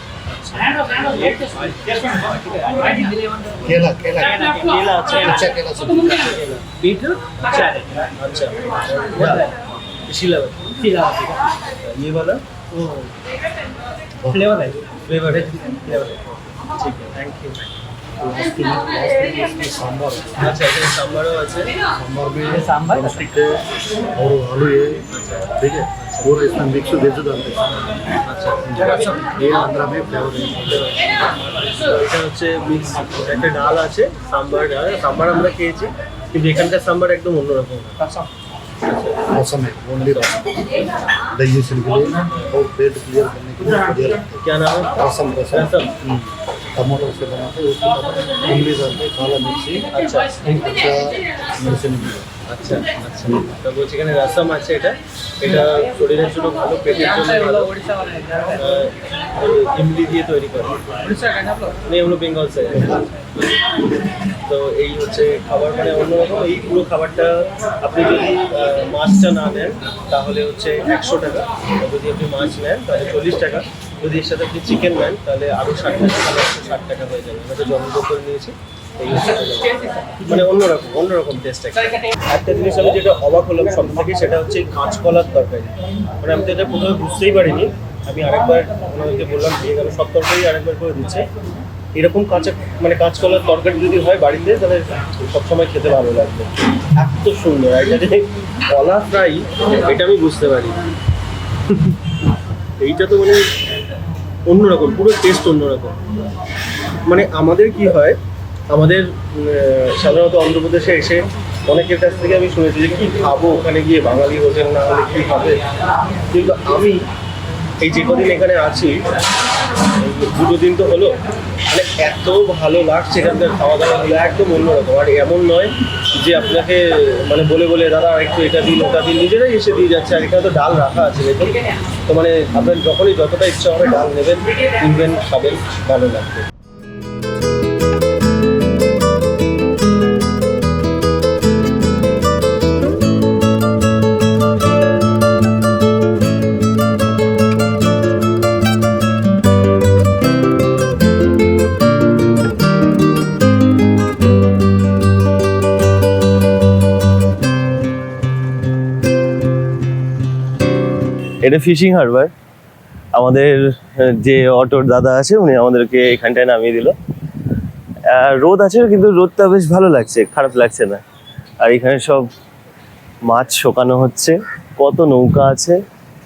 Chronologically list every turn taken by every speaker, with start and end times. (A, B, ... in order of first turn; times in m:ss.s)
0:00.3-0:01.9 A
0:03.5-0:06.8 B
0:04.6-0:05.4 A
0:08.2-0:09.5 A
0:10.1-0:13.1 A
0:14.2-0:14.8 B
0:15.0-0:17.7 A
0:18.2-0:20.5 B
0:20.4-0:21.7 A
0:22.0-0:23.6 B
0:24.2-0:25.1 B
0:25.1-0:26.3 A
0:25.6-0:27.7 B
0:28.3-0:29.2 A
0:28.7-0:30.9 B
0:31.7-0:38.0 A
0:38.9-0:39.2 A
0:39.2-0:40.5 B
0:41.4-0:44.4 B
0:44.4-0:45.0 A
0:45.0-0:52.3 B
0:45.5-0:45.9 A
0:52.5-1:03.1 A
1:04.5-1:31.3 A
1:32.0-1:40.8 A
1:42.8-1:43.5 A
1:44.5-1:46.0 A
1:47.0-1:48.2 A
1:48.7-1:55.6 A
1:56.3-1:57.0 A
1:57.8-1:59.0 A
2:00.0-2:01.2 A
2:01.7-2:16.5 A
2:41.4-2:42.3 A
2:43.1-2:47.0 A
2:48.1-2:51.0 A
2:51.6-2:52.3 A
2:53.3-2:55.8 A